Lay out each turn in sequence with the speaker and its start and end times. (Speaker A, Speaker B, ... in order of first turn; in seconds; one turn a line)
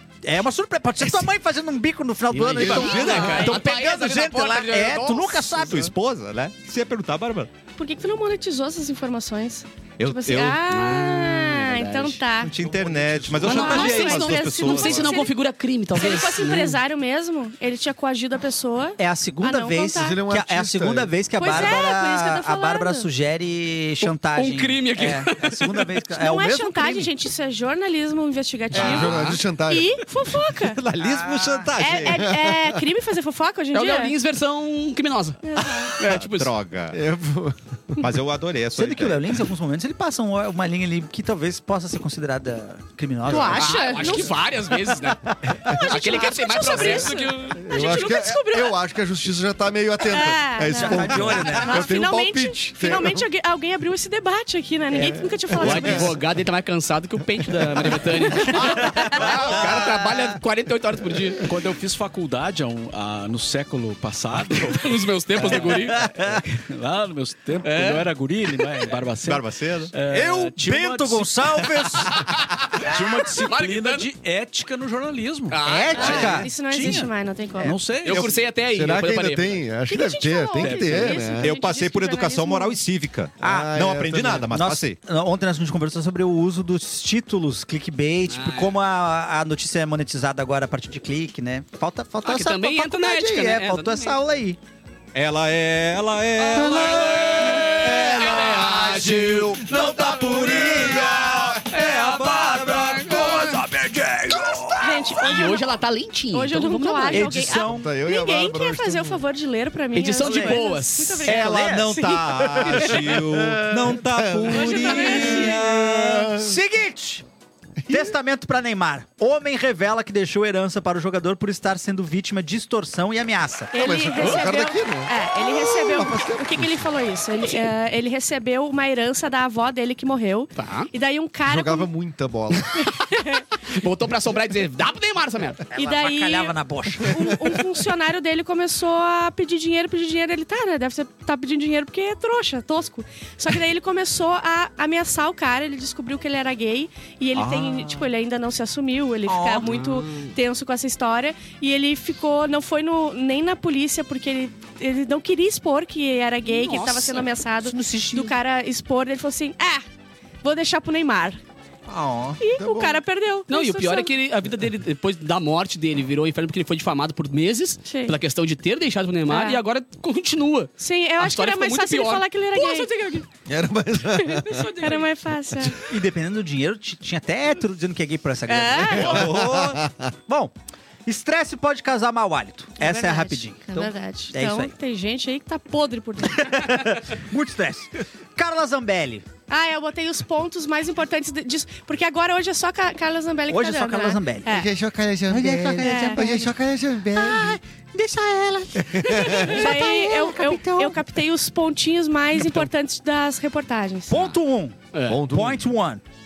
Speaker A: 0.2-5.9
Speaker B: 2.3-5.6
Speaker C: 2.5-3.6
Speaker D: 2.9-3.4
Speaker C: 5.7-7.5
Speaker D: 7.8-12.5
Speaker C: 10.0-10.6
Speaker B: 10.7-12.2
Speaker C: 12.4-15.2
Speaker E: 12.6-13.9
Speaker B: 13.4-16.8
Speaker D: 13.4-15.3
Speaker D: 15.9-20.2
Speaker A: 19.0-27.1
Speaker E: 19.9-21.8
Speaker D: 21.3-23.1
Speaker B: 24.0-25.9
Speaker D: 26.1-30.8
Speaker E: 28.7-30.0
Speaker C: 28.7-29.3
Speaker C: 30.5-32.4
Speaker A: 31.0-31.7
Speaker D: 31.8-34.1
Speaker E: 32.2-32.5
Speaker B: 33.7-36.5
Speaker D: 35.4-36.0
Speaker C: 35.9-37.0
Speaker E: 36.9-38.0
Speaker C: 38.0-39.3
Speaker A: 38.8-44.2
Speaker D: 43.3-44.4
Speaker B: 43.5-47.6
Speaker D: 45.7-48.8
Speaker E: 46.7-47.0
Speaker E: 47.6-53.3
Speaker D: 50.0-56.1
Speaker A: 50.7-52.0
Speaker E: 54.9-56.1
Speaker B: 55.5-61.5
Speaker E: 57.5-58.1
Speaker D: 58.3-59.4
Speaker A: 58.6-60.4
Speaker F: 61.4-71.4
Speaker B: 64.7-66.0
Speaker A: 65.6-66.4
Speaker B: 67.7-68.0
Speaker C: 69.2-69.9
Speaker A: 70.1-72.3
Speaker B: 72.2-74.1
Speaker F: 72.8-78.5
Speaker B: 75.5-76.5
Speaker A: 75.6-76.5
Speaker D: 75.9-77.8
Speaker B: 78.0-79.6
Speaker E: 78.1-81.5
Speaker D: 79.9-82.8
Speaker F: 80.6-81.3
Speaker C: 81.4-85.0
Speaker E: 83.4-84.5
Speaker A: 83.4-83.8
Speaker A: 84.5-94.6
Speaker B: 88.3-88.7
Speaker B: 92.2-94.2
Speaker C: 95.1-104.8
Speaker A: 96.5-105.0
Speaker B: 96.6-97.8
Speaker D: 104.8-105.7
Speaker B: 105.2-107.3
Speaker D: 106.3-112.9
Speaker A: 107.1-107.9
Speaker E: 107.6-109.2
Speaker B: 109.9-111.4
Speaker A: 110.2-110.6
Speaker A: 111.2-112.9
Speaker C: 111.3-116.3
Speaker E: 112.7-116.6
Speaker D: 114.5-115.7
Speaker A: 114.8-117.3
Speaker E: 117.8-118.1
Speaker A: 117.9-123.7
Speaker D: 123.7-131.9
Speaker E: 123.8-126.8
Speaker B: 130.6-130.9
Speaker E: 131.4-132.8
Speaker D: 132.7-133.5
Speaker B: 133.7-135.6
Speaker A: 135.7-137.4
Speaker D: 135.7-159.8
Speaker C: 147.3-148.0
Speaker A: 149.3-149.8
Speaker B: 149.6-150.3
Speaker A: 156.6-157.1
Speaker B: 156.7-157.2
Speaker A: 157.6-158.3
Speaker D: 160.4-161.4
Speaker A: 161.9-162.4
Speaker D: 162.4-164.1
Speaker E: 162.6-163.0
Speaker B: 163.5-172.9
Speaker D: 167.9-168.2
Speaker D: 169.3-169.6
Speaker D: 170.8-173.3
Speaker E: 173.5-174.8
Speaker D: 174.2-175.8
Speaker A: 175.9-180.5
Speaker D: 178.5-179.2
Speaker E: 178.8-180.0
Speaker C: 179.1-179.7
Speaker A: 181.1-184.7
Speaker D: 182.8-186.9
Speaker A: 186.2-189.3
Speaker D: 189.5-194.7
Speaker A: 193.5-194.5
Speaker E: 194.5-197.6
Speaker A: 195.3-196.5
Speaker D: 195.8-196.5
Speaker A: 197.1-201.0
Speaker E: 198.8-199.7
Speaker D: 199.0-204.3
Speaker A: 204.1-206.0
Speaker B: 204.9-205.2
Speaker E: 205.1-205.7